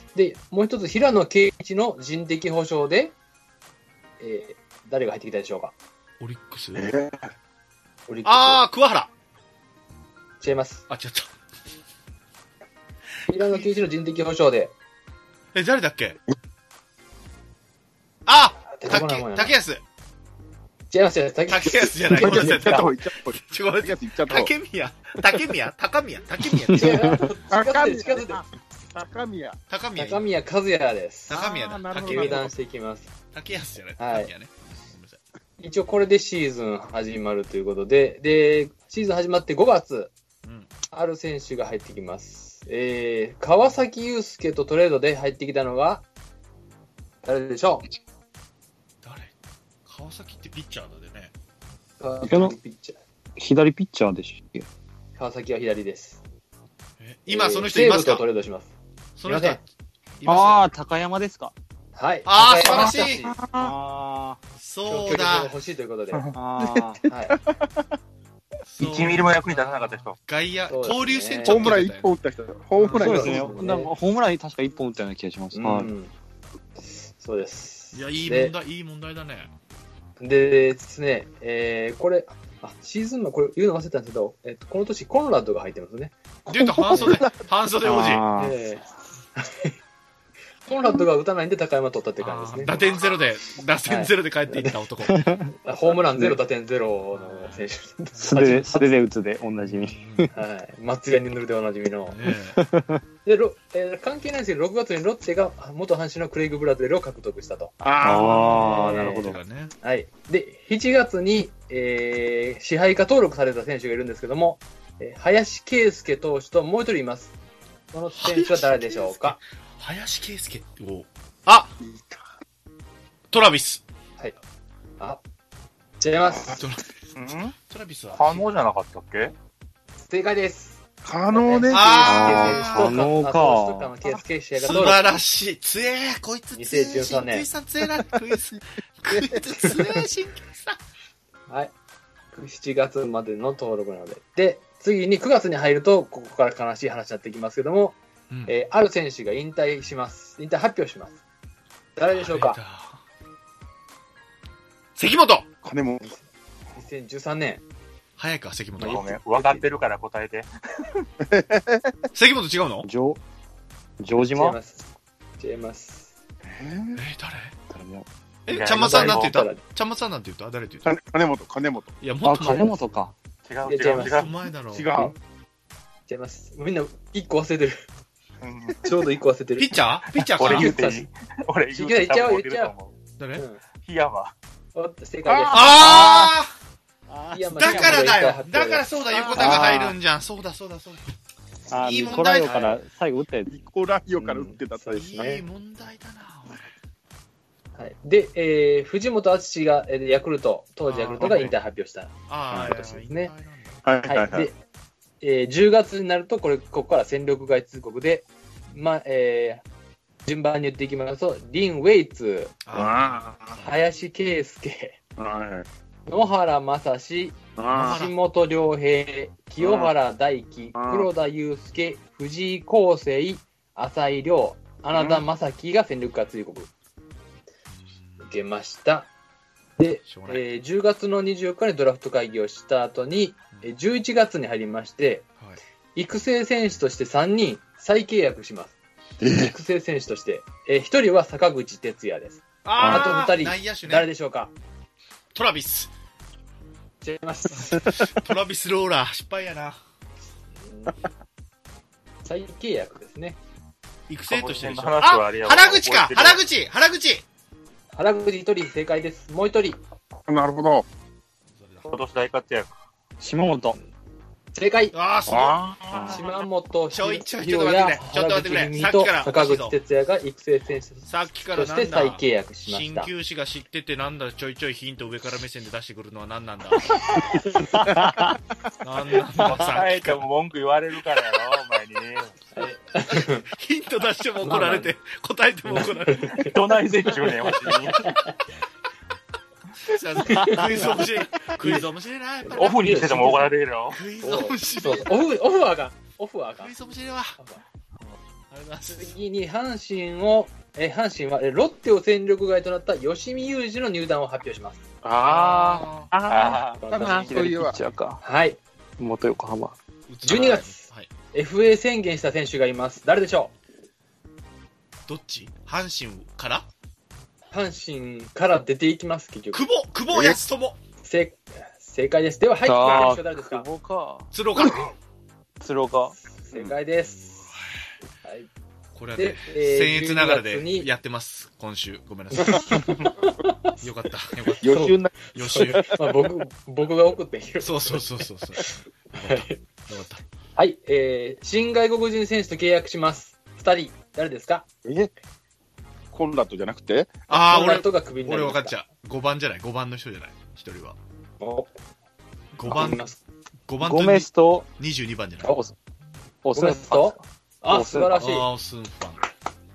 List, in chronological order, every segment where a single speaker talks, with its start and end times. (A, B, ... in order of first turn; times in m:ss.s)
0:00.1-0:03.2 A
0:04.2-0:05.8 A
0:06.2-0:06.9 B
0:06.8-0:07.3 C
0:08.1-0:08.6 A
0:08.2-0:09.1 B
0:10.4-0:10.9 A
0:10.9-0:11.3 B
0:13.3-0:14.7 A
0:15.5-0:16.2 B
0:18.3-0:19.8 B
0:18.7-0:19.6 A
0:20.9-0:22.9 A
0:21.5-0:27.2 B
0:22.0-0:24.5 C
0:26.7-0:27.2 D
0:26.7-0:28.4 A
0:27.5-0:29.6 C
0:29.7-0:30.3 B
0:30.0-0:31.4 A
0:31.3-0:32.5 B
0:31.3-0:32.5 C
0:31.9-0:33.1 A
0:33.3-0:35.2 B
0:34.0-0:34.3 A
0:35.6-0:40.1 A
0:40.4-0:40.7 B
0:40.9-0:46.0 A
0:47.2-0:47.8 A
0:49.0-0:49.3 B
0:49.9-0:51.3 B
0:52.0-0:53.0 A
0:52.3-0:52.6 D
0:53.4-0:54.7 D
0:55.2-0:56.2 A
0:57.0-0:58.2 B
0:57.3-0:58.7 A
0:59.2-0:59.6 B
0:59.2-0:59.6 A
1:00.2-1:00.6 B
1:00.3-1:01.5 D
1:02.0-1:03.4 A
1:02.3-1:03.3 B
1:02.7-1:03.8 C
1:03.5-1:04.4 D
1:04.6-1:05.5 B
1:04.9-1:06.3 A
1:06.3-1:07.0 D
1:06.6-1:07.9 C
1:07.1-1:07.4 A
1:08.7-1:12.1 B
1:08.8-1:10.2 E
1:10.7-1:11.8 A
1:11.4-1:13.6 C
1:12.9-1:15.9 D
1:12.9-1:13.9 A
1:15.5-1:16.1 A
1:16.9-1:18.6 A
1:17.9-1:19.5 B
1:20.2-1:26.2 A
1:26.5-1:28.2 B
1:26.6-1:27.4 C
1:27.8-1:28.6 D
1:28.4-1:28.8 A
1:29.4-1:29.7 A
1:30.7-1:32.8 A
1:32.2-1:35.2 B
1:33.9-1:34.8 A
1:35.1-1:35.5 D
1:35.6-1:38.9 A
1:37.2-1:37.7 B
1:38.3-1:40.3 D
1:39.6-1:40.3 B
1:40.3-1:42.2 A
1:42.1-1:42.6 B
1:42.3-1:43.0 D
1:43.2-1:57.4 A
1:47.8-1:48.7 C
1:48.0-1:49.4 D
1:48.0-1:49.7 B
1:57.9-1:59.4 A
1:58.1-2:01.7 B
2:01.8-2:02.2 C
2:03.3-2:03.8 B
2:06.0-2:06.6 A
2:06.6-2:06.9 B
2:07.2-2:07.6 E
2:07.6-2:08.5 B
2:08.1-2:09.3 E
2:10.0-2:15.1 A
2:11.0-2:12.3 C
2:11.7-2:13.1 B
2:12.1-2:13.9 D
2:14.6-2:20.8 B
2:16.6-2:17.5 A
2:19.1-2:19.4 C
2:19.6-2:20.0 A
2:22.3-2:31.2 A
2:32.0-2:32.6 A
2:32.1-2:33.0 B
2:35.0-2:35.5 B
2:35.6-2:36.1 C
2:36.8-2:37.6 A
2:38.2-2:39.1 B
2:38.8-2:39.6 A
2:38.8-2:41.0 E
2:41.2-2:42.0 C
2:42.2-2:42.9 B
2:42.8-2:43.2 D
2:44.0-2:44.6 D
2:44.3-2:44.8 A
2:45.4-2:46.1 A
2:46.4-2:47.0 C
2:47.0-2:47.6 B
2:47.7-2:48.1 D
2:48.5-2:51.0 B
2:48.5-2:49.3 E
2:48.7-2:49.6 A
2:50.8-2:51.9 C
2:52.0-2:52.8 B
2:52.2-2:53.1 D
2:53.4-2:54.3 E
2:53.6-2:54.3 A
2:53.9-2:54.9 B
2:54.7-2:55.1 C
2:56.1-2:57.8 A
2:58.4-2:58.9 E
2:58.8-2:59.8 A
2:59.6-3:00.8 B
3:00.2-3:03.0 E
3:00.4-3:01.1 A
3:01.7-3:02.7 A
3:03.2-3:03.4 B
3:03.4-3:03.6 A
3:03.8-3:04.3 E
3:04.8-3:06.3 A
3:05.2-3:06.2 C
3:05.5-3:06.5 B
3:07.3-3:08.9 A
3:07.5-3:11.1 B
3:07.7-3:08.0 E
3:09.1-3:09.8 C
3:09.4-3:10.0 D
3:11.7-3:13.5 D
3:11.7-3:12.8 B
3:13.5-3:15.4 C
3:14.2-3:15.4 A
3:15.0-3:16.7 B
3:17.8-3:23.3 A
3:20.8-3:21.6 B
3:22.3-3:23.8 B
3:23.8-3:24.5 C
3:24.1-3:24.6 A
3:25.2-3:29.6 A
3:30.2-3:32.6 A
3:32.6-3:33.7 B
3:32.7-3:33.6 C
3:33.6-3:35.0 A
3:35.2-3:35.7 C
3:36.1-3:46.7 A
3:37.6-3:38.0 C
3:37.7-3:38.2 B
3:39.6-3:39.9 C
3:40.8-3:41.1 C
3:44.9-3:45.2 C
3:47.7-3:48.3 B
3:48.2-3:49.1 A
3:49.8-3:55.3 A
3:50.0-3:50.4 B
3:56.0-3:58.8 A
3:59.2-3:59.5 C
3:59.3-4:04.5 A
4:02.6-4:04.1 B
4:02.8-4:03.2 C
4:05.3-4:05.9 B
4:07.0-4:07.9 A
4:07.5-4:09.8 B
4:10.6-4:11.0 A
4:12.2-4:13.4 A
4:14.1-4:17.2 B
4:14.3-4:16.4 E
4:17.9-4:19.8 A
4:20.3-4:20.9 C
4:21.6-4:21.9 B
4:21.8-4:22.8 E
4:23.2-4:23.8 D
4:24.6-4:24.9 A
4:24.9-4:25.6 B
4:25.3-4:26.2 C
4:25.9-4:26.2 D
4:26.1-4:33.1 A
4:26.9-4:29.8 B
4:31.1-4:37.2 B
4:37.6-4:38.4 D
4:38.8-4:40.2 B
4:39.4-4:42.3 E
4:42.6-4:43.4 A
4:43.1-4:46.5 B
4:44.4-4:44.9 A
4:45.8-4:46.5 A
4:46.4-4:48.1 E
4:47.4-4:48.3 A
4:49.8-4:53.1 B
4:50.3-4:51.0 A
4:51.6-4:51.9 A
4:52.4-4:53.5 A
4:52.5-4:54.0 E
4:53.9-4:55.3 B
4:54.2-4:56.7 A
4:56.6-4:57.4 B
4:57.4-4:57.6 A
4:58.5-4:59.2 B
4:58.9-5:04.8 A
5:05.0-5:05.9 D
5:05.2-5:06.1 B
5:06.1-5:07.9 C
5:06.3-5:07.2 E
5:06.4-5:08.2 D
5:06.8-5:07.4 A
5:08.2-5:08.6 A
5:09.0-5:09.8 D
5:10.1-5:11.1 B
5:10.2-5:13.5 A
5:15.1-5:16.7 B
5:17.5-5:19.7 A
5:19.5-5:20.8 B
5:20.1-5:20.4 C
5:21.0-5:23.7 A
5:22.6-5:24.3 D
5:24.3-5:24.9 B
5:25.6-5:26.2 D
5:26.2-5:27.4 A
5:27.0-5:27.8 B
5:28.2-5:28.5 A
5:29.0-5:33.0 B
5:29.2-5:30.9 A
5:32.3-5:33.8 A
5:33.8-5:34.7 B
5:34.5-5:39.6 A
5:34.6-5:35.8 C
5:35.3-5:36.0 B
5:37.6-5:40.2 B
5:40.6-5:44.7 A
5:46.1-5:47.2 C
5:47.3-5:51.0 B
5:47.3-5:48.8 A
5:51.4-5:51.7 A
5:52.6-5:53.0 B
5:52.7-5:53.2 A
5:53.7-5:55.6 B
5:53.8-5:54.7 D
5:55.4-5:55.7 D
5:56.4-5:58.2 D
5:56.5-5:58.5 A
5:58.2-5:59.2 B